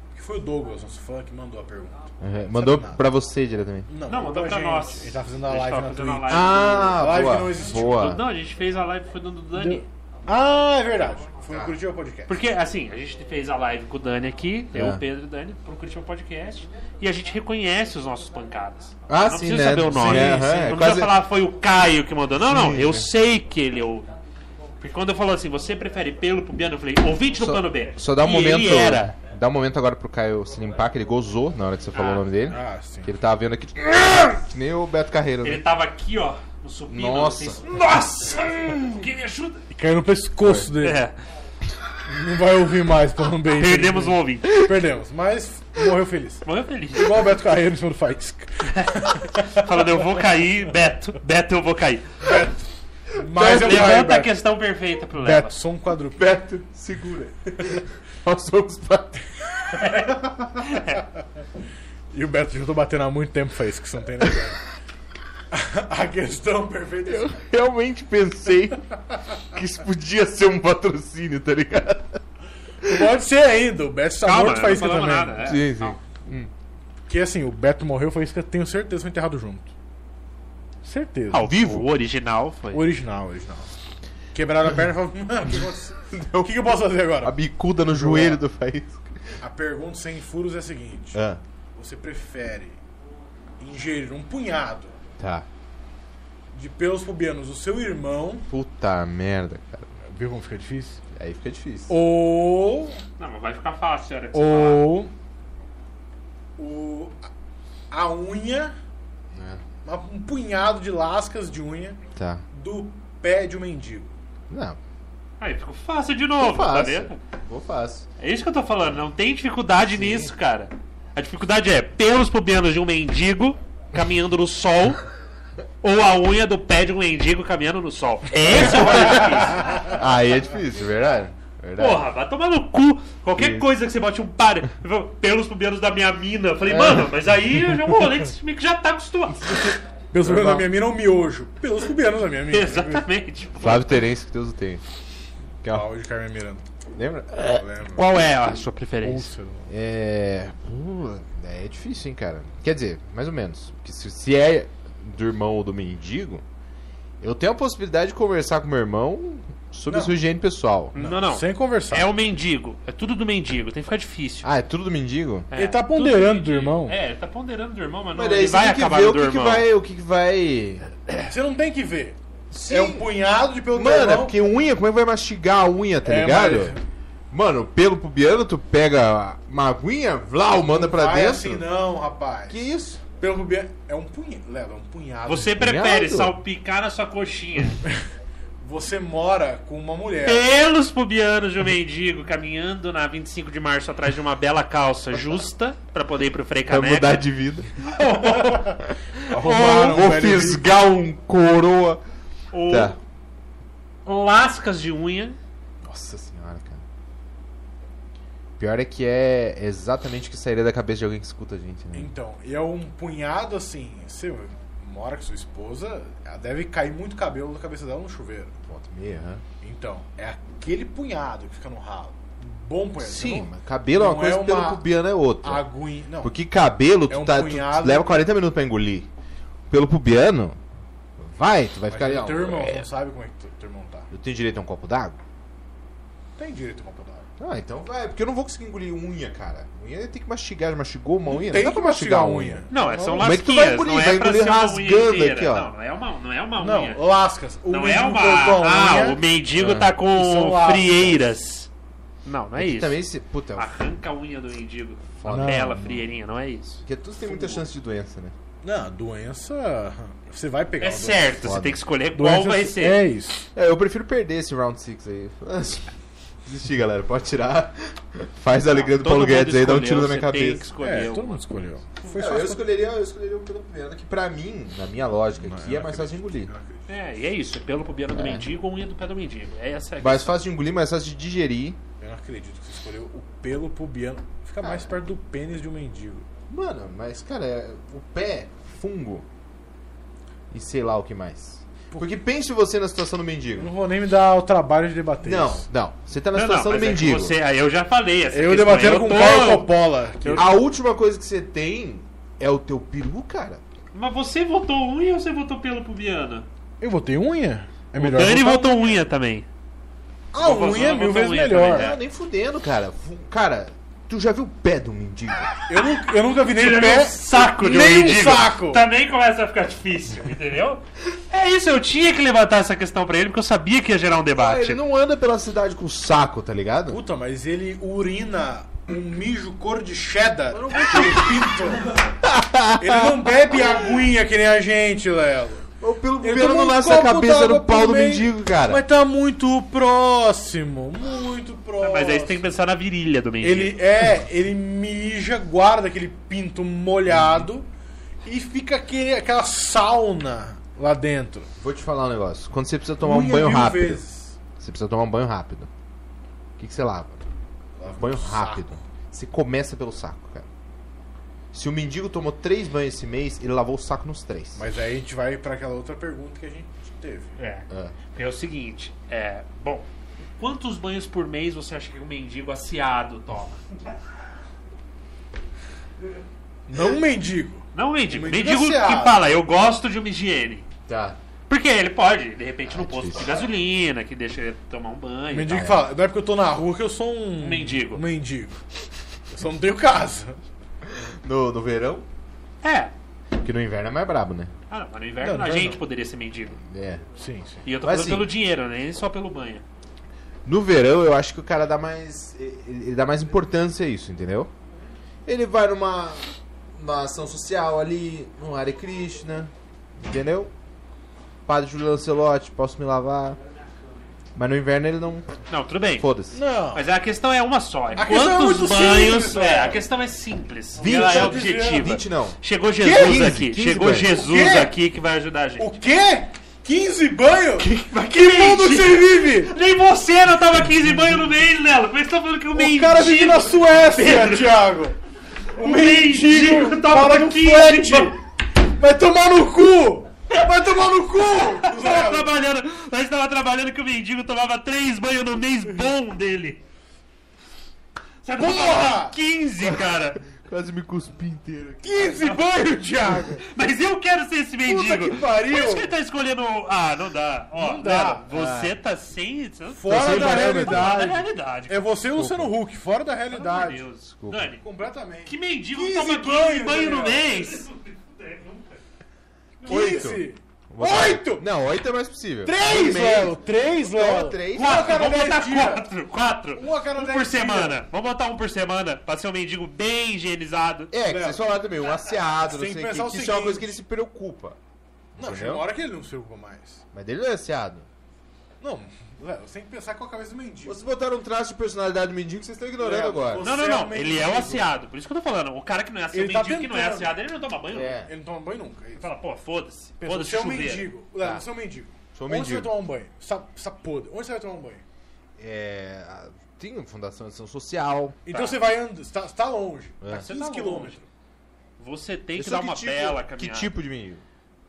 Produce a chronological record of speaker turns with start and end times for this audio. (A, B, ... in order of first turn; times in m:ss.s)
0:00.1-0:03.0 A
0:02.2-0:03.9 B
0:03.9-0:08.1 A
0:04.1-0:07.2 C
0:06.3-0:08.2 B
0:07.7-0:09.9 C
0:09.6-0:12.4 A
0:12.3-0:24.1 C
0:14.7-0:15.0 B
0:19.1-0:21.2 B
0:22.4-0:23.1 B
0:24.8-0:29.2 C
0:27.4-0:35.6 B
0:31.9-0:32.3 C
0:32.5-0:33.1 A
0:35.4-0:39.6 C
0:36.9-0:37.7 B
0:39.7-0:41.0 A
0:40.8-0:41.1 C
0:42.0-0:49.6 A
0:43.6-0:44.6 C
0:46.4-0:47.3 C
0:48.8-0:52.3 C
0:52.2-0:54.3 A
0:53.4-0:55.5 C
0:55.2-0:56.3 A
0:56.2-1:00.3 B
0:59.8-1:01.0 C
1:02.1-1:04.6 A
1:05.5-1:07.4 A
1:07.1-1:08.9 B
1:09.4-1:12.2 B
1:12.8-1:15.5 A
1:14.2-1:16.0 C
1:15.4-1:16.5 B
1:17.1-1:19.7 A
1:20.8-1:21.5 A
1:21.3-1:22.9 C
1:21.4-1:21.9 B
1:22.7-1:23.7 A
1:24.3-1:28.4 A
1:26.1-1:26.6 B
1:27.2-1:29.4 B
1:29.4-1:31.2 A
1:31.1-1:31.4 B
1:31.8-1:32.8 A
1:33.6-1:34.9 A
1:35.2-1:35.5 B
1:36.5-1:38.5 A
1:38.5-1:39.9 B
1:40.0-1:41.0 A
1:41.1-1:41.9 B
1:41.9-1:43.0 A
1:43.2-1:44.9 C
1:44.3-1:45.1 A
1:46.6-1:47.2 A
1:47.9-1:48.7 A
1:49.3-1:49.6 B
1:49.8-1:52.0 A
1:52.2-1:52.4 B
1:52.5-1:54.1 A
1:54.5-1:54.8 B
1:55.4-1:57.2 C
1:56.4-1:58.1 B
1:58.2-2:05.0 C
2:00.0-2:00.3 B
2:05.8-2:10.0 C
2:08.5-2:12.1 B
2:08.9-2:09.9 A
2:11.8-2:19.8 C
2:13.4-2:13.7 B
2:16.7-2:17.1 B
2:19.4-2:20.7 B
2:20.1-2:23.0 A
2:22.5-2:24.1 C
2:23.6-2:24.8 B
2:25.7-2:26.6 A
2:27.0-2:27.6 B
2:27.4-2:28.1 A
2:28.0-2:29.3 C
2:29.0-2:29.7 A
2:29.7-2:36.4 B
2:37.2-2:41.0 B
2:39.9-2:40.1 A
2:41.0-2:42.1 A
2:41.0-2:44.5 C
2:44.4-2:45.5 B
2:45.5-2:49.7 C
2:45.6-2:47.0 A
2:48.1-2:50.9 B
2:51.2-2:54.4 A
2:52.5-2:53.1 B
2:53.7-2:56.8 B
2:56.0-2:56.8 A
2:57.3-3:01.7 B
3:00.7-3:05.6 A
3:02.5-3:03.0 B
3:05.3-3:07.8 C
3:05.6-3:06.4 B
3:08.6-3:10.5 A
3:10.2-3:17.2 C
3:16.7-3:17.8 B
3:17.8-3:20.0 C
3:18.3-3:18.7 A
3:19.3-3:20.6 A
3:19.5-3:22.0 B
3:22.5-3:23.0 C
3:22.7-3:23.0 B
3:24.1-3:25.4 C
3:25.8-3:26.8 B
3:28.6-3:32.1 B
3:31.9-3:38.6 A
3:38.7-3:39.4 B
3:39.6-3:44.8 A
3:43.0-3:45.6 B
3:45.4-3:46.3 A
3:46.2-3:49.1 B
3:47.1-3:48.2 A
3:49.7-3:50.6 B
3:51.2-3:52.9 B
3:51.9-3:54.1 A
3:54.1-3:55.2 B
3:56.4-3:57.3 A
3:57.4-4:02.7 B
4:01.3-4:03.4 A
4:02.7-4:07.0 C
4:03.2-4:05.7 B
4:06.6-4:09.2 A
4:07.7-4:11.7 C
4:09.5-4:09.9 B
4:10.1-4:11.3 A
4:12.2-4:13.0 C
4:12.6-4:13.7 B
4:13.6-4:16.8 C
4:15.2-4:15.9 B
4:15.3-4:16.0 A
4:16.9-4:18.4 B
4:17.3-4:17.6 A
4:18.6-4:21.4 A
4:20.8-4:23.0 C
4:21.4-4:21.8 B
4:22.2-4:23.5 A
4:23.6-4:25.9 B
4:26.4-4:30.6 B
4:28.8-4:31.4 C
4:30.8-4:32.6 A
4:32.1-4:36.5 B
4:35.4-4:36.9 A
4:36.9-4:40.3 C
4:38.2-4:38.5 B
4:40.0-4:41.8 B
4:42.0-4:46.3 A
4:44.6-4:44.9 B
4:46.5-4:49.2 B
4:50.5-4:53.7 B
4:53.6-4:55.7 A
4:55.2-4:57.4 B
4:56.3-4:59.7 C
4:58.3-5:00.5 A
5:00.2-5:00.5 C
5:00.4-5:03.6 B
5:03.9-5:06.5 C
5:06.8-5:09.0 A
5:08.0-5:09.5 C
5:10.3-5:11.9 A
5:10.4-5:12.0 C
5:11.7-5:15.5 B
5:15.7-5:18.8 A
5:16.5-5:24.8 C
5:24.4-5:27.0 B
5:26.9-5:31.9 A
5:30.5-5:33.9 B
5:32.8-5:35.7 A
5:35.8-5:38.8 B
5:36.2-5:42.4 A
5:41.8-5:43.8 C
5:43.4-5:47.7 A
5:47.2-5:47.4 B
5:48.2-5:51.5 A
5:51.6-5:54.0 B
5:53.0-5:54.4 A
5:54.6-5:55.7 B
5:56.6-5:57.2 B
5:57.8-5:58.8 A
5:57.9-6:00.5 B
6:01.5-6:04.7 B
6:04.6-6:07.4 A
6:07.4-6:09.9 C
6:07.7-6:08.0 B
6:10.4-6:13.6 C
6:16.7-6:19.2 A
6:17.7-6:20.6 C
6:20.9-6:21.2 B
6:21.5-6:25.6 C
6:22.7-6:23.4 B
6:25.3-6:28.6 A
6:25.5-6:25.9 B
6:27.4-6:28.0 C
6:29.3-6:30.4 A
6:30.8-6:32.0 B
6:32.6-6:32.9 C
6:33.4-6:34.5 B
6:34.7-6:36.6 C
6:35.2-6:35.8 A
6:36.6-6:37.0 B
6:37.2-6:37.6 A
6:37.6-6:39.6 C
6:37.8-6:38.3 B
6:40.5-6:44.5 B
6:45.3-6:50.5 B
6:51.5-6:53.4 B
6:54.4-6:55.3 B
6:55.5-6:56.1 C
6:56.0-6:56.4 B
6:56.3-6:56.8 A
6:56.8-7:05.7 C
6:58.0-6:59.8 A
7:00.8-7:04.1 B
7:00.8-7:01.9 A
7:02.8-7:03.3 A
7:04.2-7:04.7 A
7:05.6-7:09.5 A
7:07.6-7:14.7 C
7:12.5-7:15.0 A
7:15.6-7:22.3 A
7:15.6-7:18.1 C
7:21.4-7:26.6 C
7:28.2-7:30.2 C
7:28.4-7:29.2 A
7:29.6-7:32.4 B
7:31.8-7:33.4 A
7:33.3-7:41.9 C
7:34.7-7:35.9 A
7:37.6-7:38.3 A
7:38.3-7:38.8 B
7:39.7-7:43.8 A
7:39.9-7:41.2 B
7:42.2-7:42.5 B
7:43.3-7:44.6 C
7:44.2-7:44.5 B
7:44.6-7:47.6 A
7:45.3-7:48.7 C
7:49.6-7:50.0 C
7:49.6-7:51.5 A
7:49.7-7:55.1 B
7:52.4-7:55.9 A
7:54.5-8:00.9 C
7:56.6-7:57.8 A
8:00.9-8:04.6 B
8:01.0-8:01.4 A
8:02.4-8:03.8 A
8:05.2-8:05.6 B
8:05.2-8:06.8 A
8:06.9-8:07.9 B
8:08.6-8:10.8 A
8:10.7-8:13.5 B
8:12.8-8:14.7 A
8:13.4-8:18.0 C
8:16.1-8:17.2 A
8:17.7-8:18.1 B
8:18.0-8:19.1 A
8:19.0-8:20.9 C
8:20.0-8:24.8 A
8:22.1-8:22.7 B
8:25.4-8:28.2 B
8:28.3-8:31.1 A
8:28.3-8:28.6 C
8:30.0-8:30.3 B
8:30.1-8:31.0 C
8:31.8-8:33.7 C
8:32.4-8:34.2 B